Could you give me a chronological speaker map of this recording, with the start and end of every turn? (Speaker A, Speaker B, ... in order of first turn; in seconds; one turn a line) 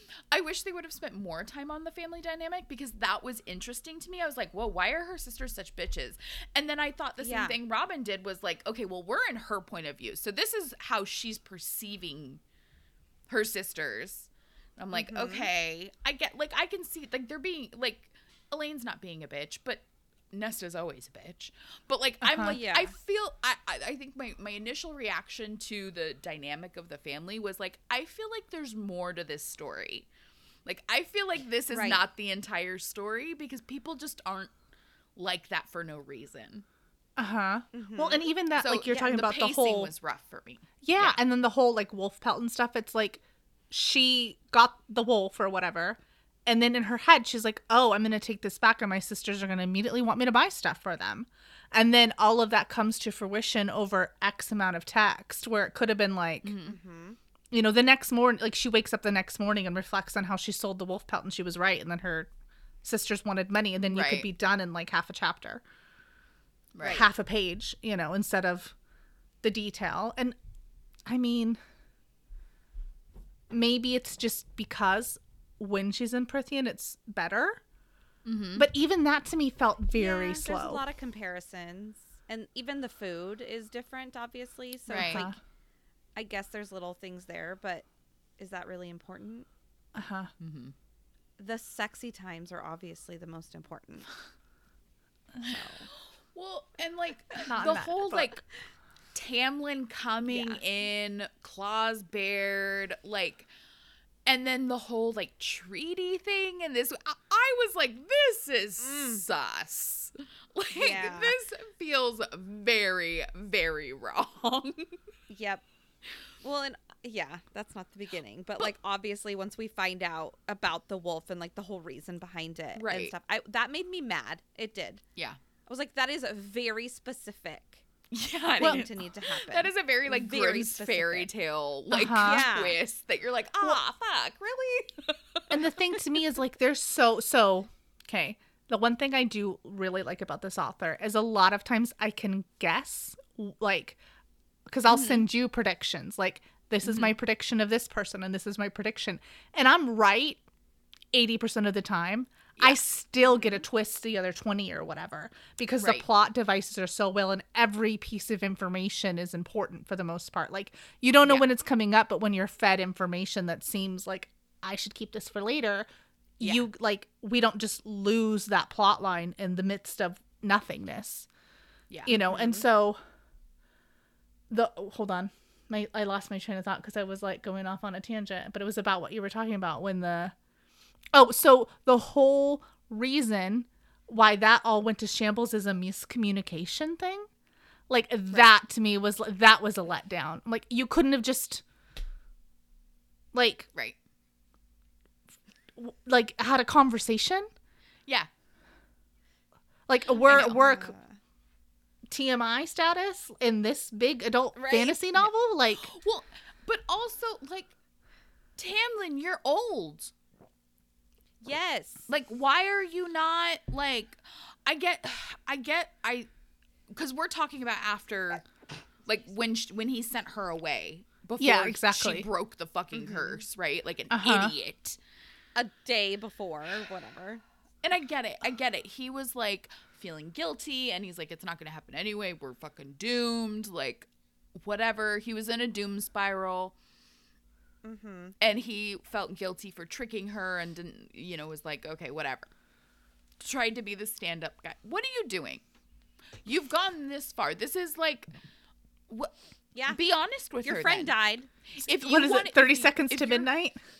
Speaker A: 0.3-12.4
Speaker B: 7.2-7.5
Speaker A: 13.3-30.1
Speaker B: 14.9-15.5
Speaker C: 22.2-22.5
Speaker B: 22.4-22.9
Speaker A: 30.6-34.5
Speaker B: 31.7-32.0
Speaker A: 35.1-36.6
Speaker C: 37.2-39.9
Speaker B: 37.7-38.3
Speaker A: 38.6-41.2
Speaker C: 40.8-56.5
Speaker A: 56.4-56.8
Speaker B: 56.6-57.2
Speaker C: 57.5-62.3
Speaker C: 62.8-65.6
Speaker A: 63.9-64.3
Speaker A: 66.7-67.0
Speaker C: 66.8-68.7
Speaker C: 69.4-70.4
Speaker C: 71.0-71.6
Speaker C: 73.5-77.6
Speaker A: 78.2-78.7
Speaker C: 78.5-80.8
Speaker B: 79.9-85.3
Speaker A: 84.9-85.2
Speaker C: 85.0-85.4
Speaker B: 86.2-87.8
Speaker B: 88.4-89.5
Speaker C: 89.9-90.3
Speaker A: 90.4-90.7
Speaker B: 91.4-94.1
Speaker B: 95.4-95.9
Speaker A: 95.9-98.4
Speaker C: 97.5-98.4
Speaker A: 99.1-103.5
Speaker B: 100.3-100.6
Speaker A: 104.2-115.0
Speaker B: 108.8-109.2
Speaker B: 110.7-111.3
Speaker B: 115.3-115.6
Speaker B: 116.4-125.0
Speaker A: 122.8-123.1
Speaker B: 125.7-127.8
Speaker A: 128.1-134.4
Speaker B: 128.6-131.3
Speaker C: 128.6-128.8
Speaker C: 131.9-132.5
Speaker B: 132.1-132.8
Speaker B: 133.6-134.8
Speaker A: 135.1-135.4
Speaker C: 135.5-144.0
Speaker C: 144.7-150.4
Speaker A: 144.9-145.2
Speaker A: 146.8-147.1
Speaker C: 151.1-165.9
Speaker A: 152.6-152.8
Speaker A: 155.8-156.0
Speaker C: 166.4-171.3
Speaker A: 166.4-166.6
Speaker A: 171.9-172.1
Speaker C: 172.1-173.0
Speaker B: 172.2-172.6
Speaker C: 174.5-180.3
Speaker C: 181.1-187.3
Speaker C: 187.9-191.6
Speaker C: 193.3-193.7
Speaker C: 195.8-197.5
Speaker C: 199.9-200.9
Speaker A: 200.2-200.6
Speaker B: 200.3-201.1
Speaker C: 202.1-205.9
Speaker B: 204.5-205.0
Speaker A: 205.2-207.7
Speaker A: 208.6-210.1
Speaker B: 211.4-212.1
Speaker A: 212.1-216.3
Speaker A: 216.9-218.5
Speaker A: 219.1-225.0
Speaker C: 221.4-222.3
Speaker B: 222.9-223.4
Speaker C: 224.1-224.5
Speaker B: 225.5-227.4
Speaker A: 227.8-236.8
Speaker B: 237.8-238.3
Speaker A: 238.4-242.5
Speaker A: 243.4-245.6
Speaker A: 246.4-248.3
Speaker A: 249.9-251.1
Speaker B: 250.6-251.5
Speaker A: 251.7-253.5
Speaker C: 251.8-253.8